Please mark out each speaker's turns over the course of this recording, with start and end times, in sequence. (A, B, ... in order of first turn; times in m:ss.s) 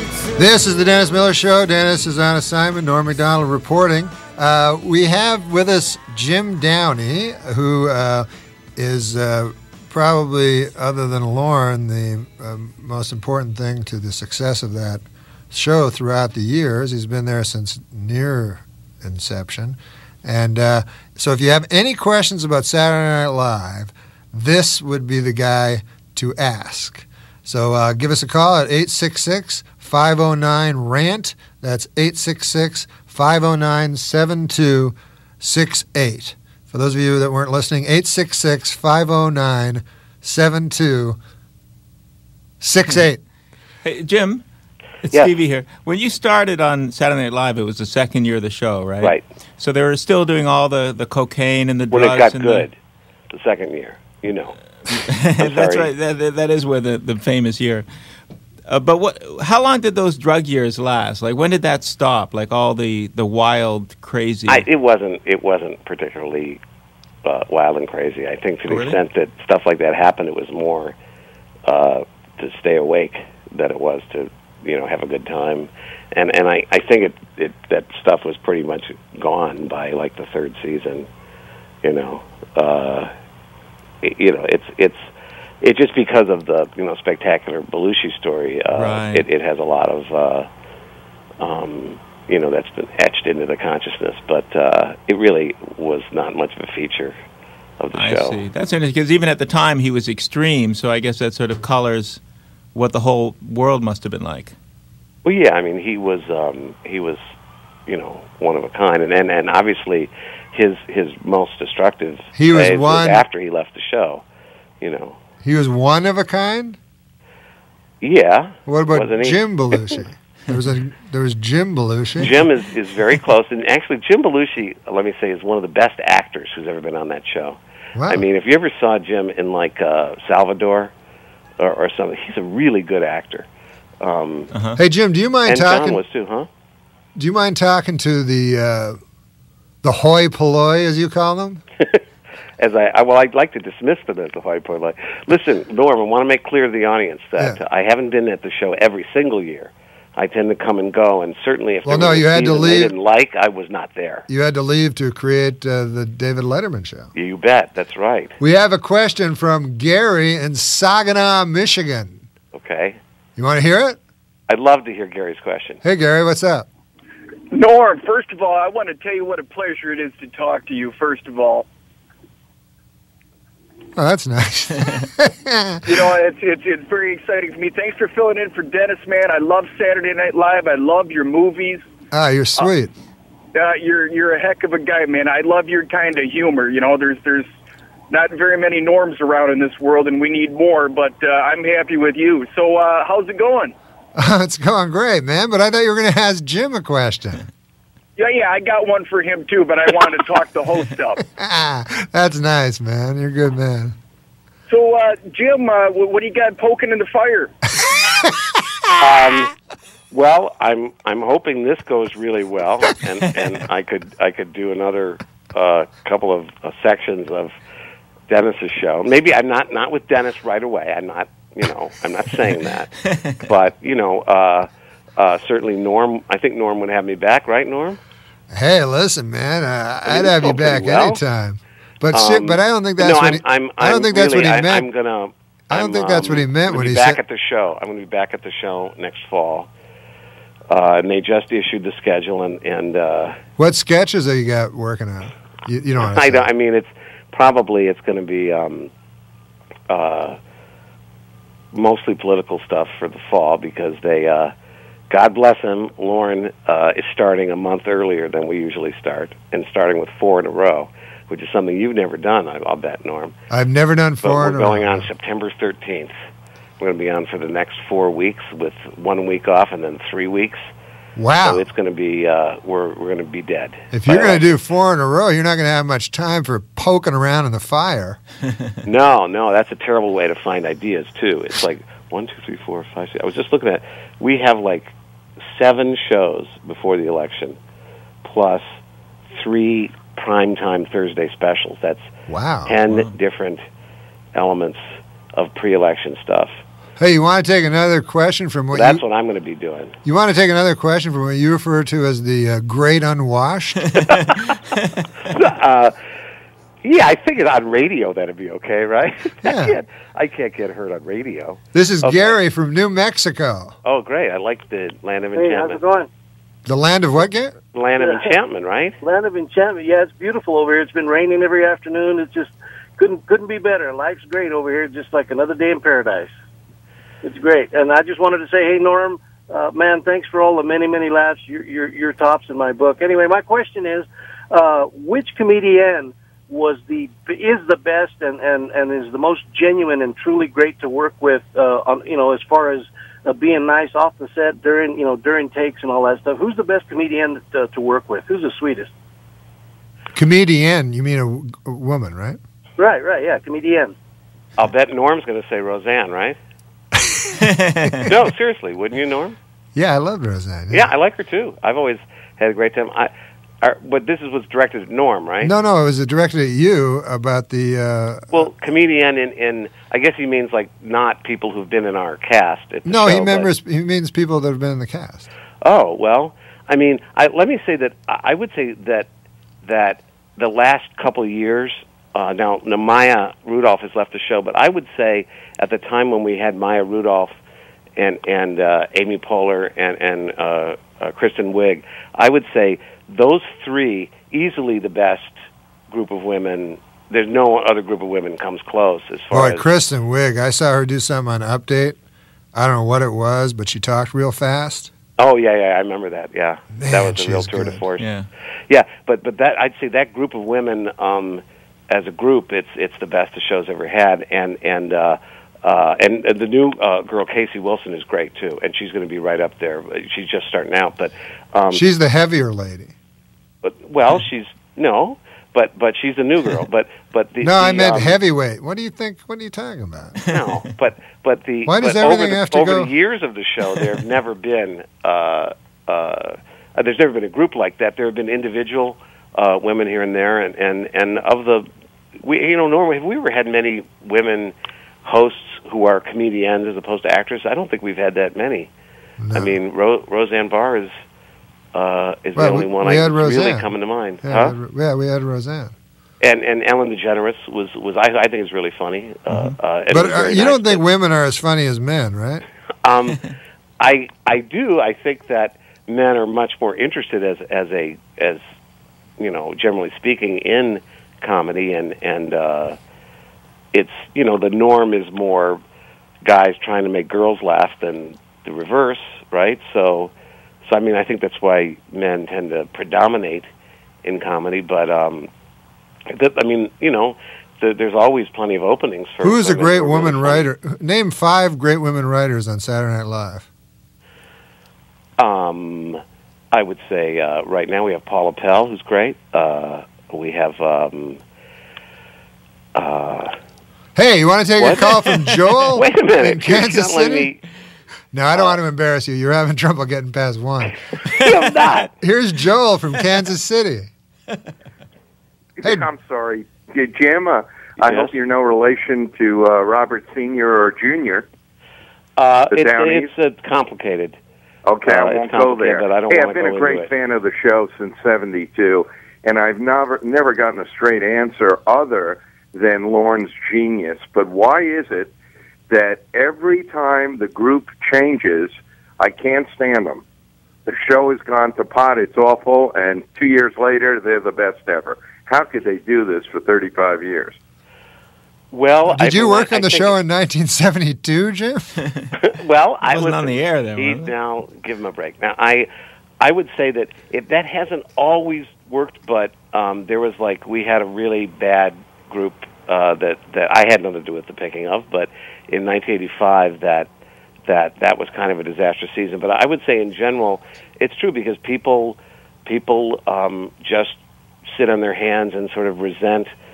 0:00.3-0:41.2 A
0:42.6-0:43.2 A
0:43.8-0:44.4 B
0:45.0-0:52.7 B
0:51.9-0:52.8 C
0:53.3-0:54.6 C
0:54.9-0:57.8 B
0:55.4-0:55.9 C
0:58.7-1:04.6 B
1:04.5-1:06.6 C
1:07.2-1:10.9 C
1:08.7-1:09.0 B
1:11.6-1:21.1 C
1:21.8-1:23.1 C
1:24.0-1:25.1 C
1:25.6-1:30.5 C
1:28.7-1:29.2 B
1:31.4-1:37.1 C
1:37.8-1:38.4 C
1:37.9-1:42.2 B
1:42.7-1:44.6 B
1:45.2-1:47.2 C
1:47.9-1:54.2 C
1:52.3-1:53.2 A
1:54.8-1:55.2 C
1:55.4-1:56.8 A
1:58.0-1:59.9 C
1:58.7-2:02.4 A
2:02.2-2:10.9 C
2:08.0-2:08.2 A
2:11.6-2:13.5 C
2:14.0-2:14.5 C
2:14.5-2:14.8 B
2:14.8-2:16.0 A
2:15.5-2:16.5 C
2:17.2-2:19.0 A
2:19.8-2:21.6 A
2:22.6-2:34.3 C
2:31.8-2:32.9 A
2:34.3-2:37.1 A
2:37.1-2:38.4 C
2:38.4-2:42.2 A
2:42.5-2:43.0 C
2:43.4-2:44.0 A
2:44.5-2:45.8 C
2:45.8-2:46.7 A
2:47.5-2:51.6 D
2:54.0-2:56.0 A
2:55.8-3:01.8 D
3:02.1-3:02.9 A
3:03.5-3:07.5 D
3:08.1-3:13.7 D
3:14.2-3:17.4 A
3:18.2-3:21.2 D
3:21.3-3:24.0 A
3:24.7-3:27.5 D
3:29.0-3:29.5 C
3:30.1-3:37.5 C
3:38.3-3:48.0 C
3:48.5-3:54.9 A
3:50.0-3:51.2 C
3:52.1-3:59.7 C
3:55.7-3:57.2 A
4:00.7-4:03.4 C
4:03.6-4:06.4 A
4:06.0-4:08.9 C
4:09.9-4:10.4 C
4:11.7-4:14.5 C
4:15.1-4:23.3 C
4:23.5-4:25.1 A
4:24.2-4:26.1 C
4:26.8-4:30.6 C
4:31.2-4:31.6 A
4:31.4-4:34.4 C
4:33.9-4:38.2 A
4:38.8-4:47.6 C
4:48.2-4:48.7 C
4:49.3-4:52.1 C
4:52.3-4:52.8 A
4:52.6-4:53.6 C
4:54.3-4:54.8 C
4:55.3-4:56.6 C
4:57.0-4:59.0 A
4:58.7-5:00.0 C
5:00.0-5:04.0 A
5:04.1-5:04.5 C
5:05.2-5:05.9 C
5:06.8-5:12.4 C
5:09.4-5:09.8 A
5:11.7-5:13.8 A
5:13.8-5:15.8 C
5:15.3-5:16.1 E
5:16.6-5:17.6 A
5:17.7-5:19.0 C
5:18.0-5:18.3 E
5:19.0-5:26.3 E
5:27.2-5:48.9 E
5:50.1-5:52.4 A
5:52.8-5:53.9 E
5:54.6-5:56.4 C
5:56.9-5:57.4 A
5:57.4-5:58.0 B
5:58.0-5:59.4 C
5:59.7-6:00.9 A
6:00.7-6:03.1 C
6:03.6-6:05.5 C
6:05.4-6:08.5 A
6:08.3-6:13.5 C
6:12.8-6:15.2 A
6:15.6-6:19.1 C
6:19.6-6:27.4 C
6:28.0-6:35.3 C
6:35.9-6:39.6 C
6:39.3-6:42.0 A
6:42.5-6:44.9 A
6:45.2-6:48.0 C
6:46.8-6:47.8 A
6:48.0-6:48.3 B
6:48.7-7:01.8 C
7:01.7-7:02.9 A
7:03.6-7:08.2 C
7:07.4-7:10.2 A
7:10.2-7:21.7 C
7:11.6-7:12.9 A
7:22.2-7:28.7 C
7:29.2-7:29.6 A
7:29.3-7:30.9 C
7:31.7-7:34.6 C
7:32.4-7:33.7 A
7:34.2-7:35.7 A
7:36.2-7:40.8 C
7:39.3-7:39.5 B
7:39.9-7:42.4 A
7:42.8-7:48.4 C
7:49.2-7:52.8 C
7:53.7-7:55.6 C
7:56.2-8:00.1 C
8:00.6-8:03.4 C
8:04.0-8:05.3 C
8:06.1-8:10.5 C
8:09.2-8:13.5 A
8:15.2-8:21.2 C
8:22.7-8:23.3 C
8:24.0-8:27.3 A
8:24.6-8:25.0 C
8:25.7-8:27.4 C
8:28.1-8:30.8 A
8:31.1-8:31.9 C
8:32.0-8:33.9 A
8:35.6-8:41.3 F
8:37.8-8:38.1 C
8:42.2-8:44.2 C
8:42.5-8:43.1 F
8:44.6-8:55.1 F
8:44.8-8:46.9 C
8:55.7-9:00.0 F
9:00.6-9:07.4 F
9:08.5-9:09.9 C
9:08.9-9:11.7 A
9:12.2-9:15.7 C
9:12.8-9:14.1 B
9:16.2-9:26.9 C
9:27.5-9:36.3 C